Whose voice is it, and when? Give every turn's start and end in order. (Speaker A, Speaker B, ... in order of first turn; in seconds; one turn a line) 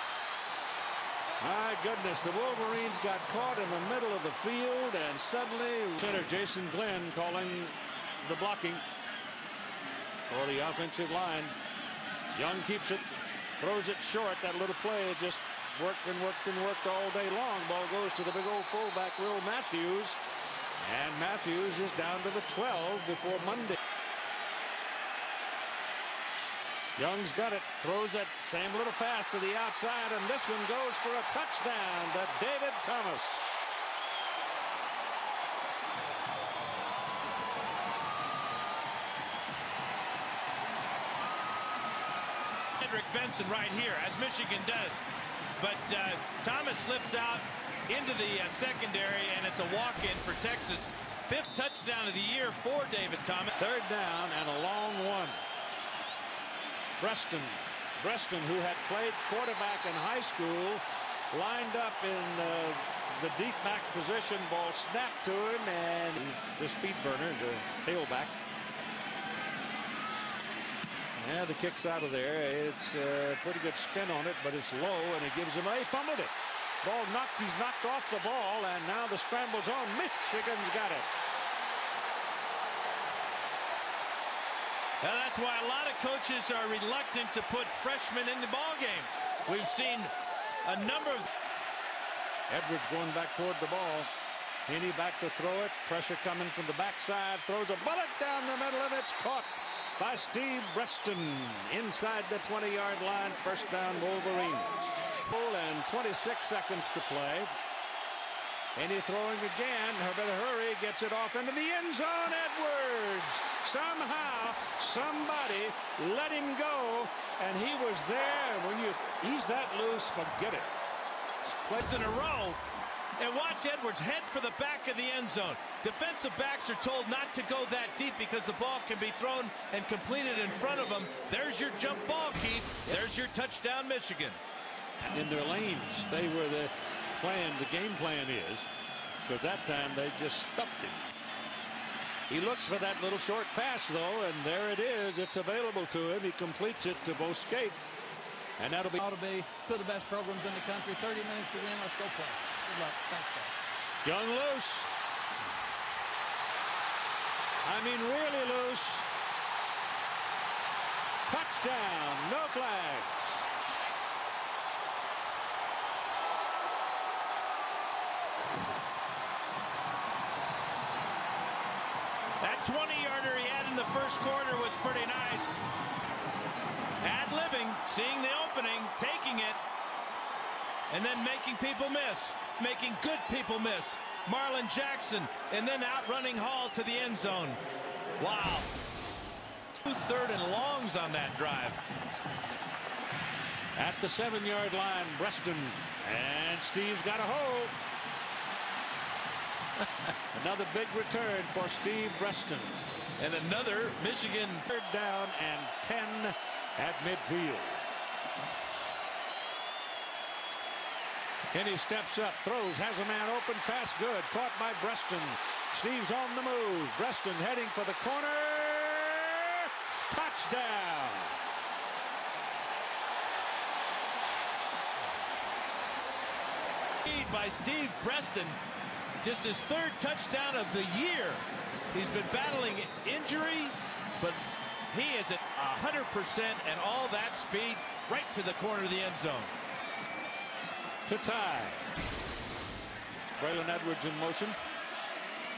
Speaker A: 1.4-8.8
Speaker A: 10.3-11.5
Speaker A: 12.3-13.1
Speaker A: 13.6-20.2
Speaker A: 20.8-23.8
Speaker A: 27.0-33.6
Speaker B: 42.8-45.0
Speaker B: 45.6-53.5
Speaker A: 53.6-55.4
Speaker A: 57.0-68.4
Speaker A: 71.2-76.3
Speaker A: 76.8-81.1
Speaker B: 85.0-90.1
Speaker B: 90.6-91.3
Speaker A: 92.5-94.1
Speaker A: 94.7-107.5
Speaker A: 108.8-120.7
Speaker A: 121.5-121.8
Speaker B: 121.7-122.6
Speaker B: 123.2-134.4
Speaker A: 135.0-138.7
Speaker A: 139.2-141.0
Speaker A: 142.3-147.8
Speaker A: 148.6-149.0
Speaker C: 149.0-153.5
Speaker A: 154.0-154.9
Speaker A: 157.6-159.1
Speaker A: 161.3-163.5
Speaker B: 172.4-175.6
Speaker B: 177.0-179.6
Speaker B: 180.9-187.6
Speaker B: 188.2-188.7
Speaker B: 189.8-191.8
Speaker A: 193.8-197.8
Speaker A: 200.3-202.8
Speaker B: 203.2-204.7
Speaker A: 204.7-207.8
Speaker A: 211.5-221.4
Speaker B: 227.1-228.6
Speaker B: 229.2-239.5
Speaker A: 241.1-241.9
Speaker A: 243.4-244.6